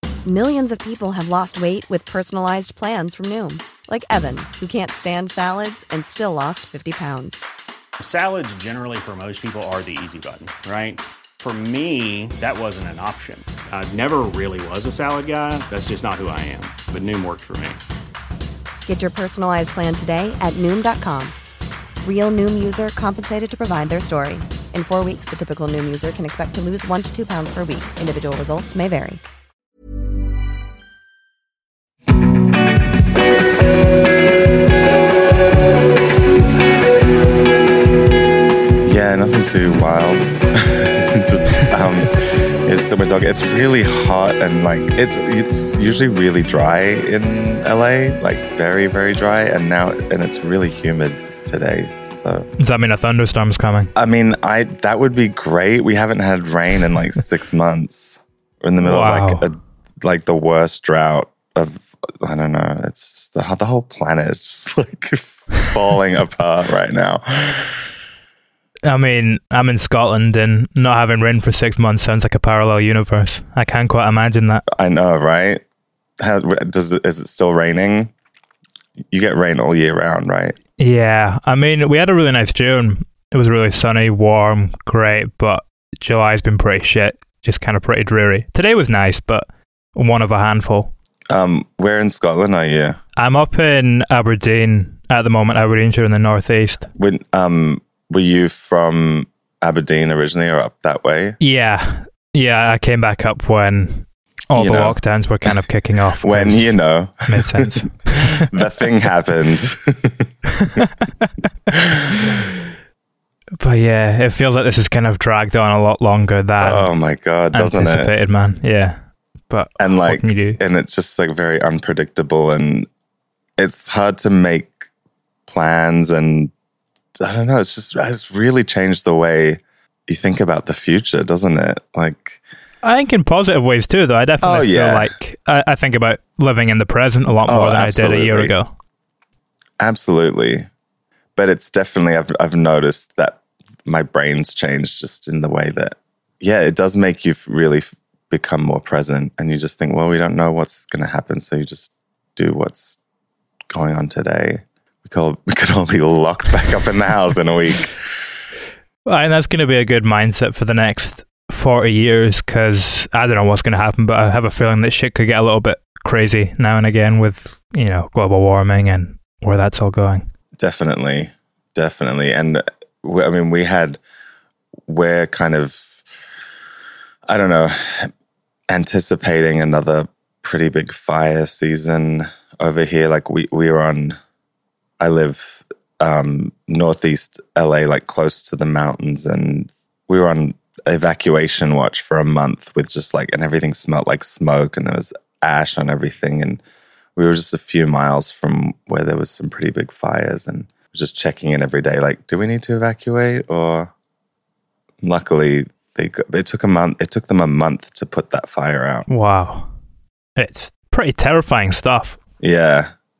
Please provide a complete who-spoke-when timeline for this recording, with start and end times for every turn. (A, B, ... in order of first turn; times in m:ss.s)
0:00.2-0:07.4 A
0:08.0-0:17.8 B
0:18.9-0:21.4 A
0:22.0-0:29.2 A
0:38.8-0:52.5 C
0:52.6-0:53.9 D
0:54.0-1:07.8 C
0:58.8-0:59.5 D
1:08.9-1:14.6 D
1:14.7-1:15.6 C
1:16.2-1:18.1 C
1:19.1-1:20.6 C
1:20.8-1:30.9 D
1:31.3-1:33.0 C
1:33.2-1:36.9 D
1:37.0-1:41.4 C
1:41.4-1:46.8 D
1:44.5-1:45.0 C
1:46.2-1:50.8 C
1:47.3-1:48.5 D
1:50.8-1:51.3 D
1:53.6-1:56.9 D
1:56.6-1:58.1 C
1:57.5-2:00.6 D
1:59.8-2:02.9 C
2:03.6-2:04.9 C
2:05.5-2:06.5 C
2:07.2-2:12.4 C
2:12.8-2:18.7 D
2:14.4-2:15.1 C
2:17.4-2:18.5 C
2:19.8-2:20.7 C
2:21.4-2:33.0 C
2:33.7-2:37.9 C
2:39.1-2:50.3 D
2:50.6-2:54.0 C
2:54.9-2:56.0 C
2:57.3-2:58.1 C
2:58.7-3:04.2 C
3:05.0-3:16.6 C
3:17.2-3:23.9 C
3:25.0-3:29.1 C
3:29.1-3:29.7 D
3:30.4-3:32.2 D
3:32.4-3:32.9 C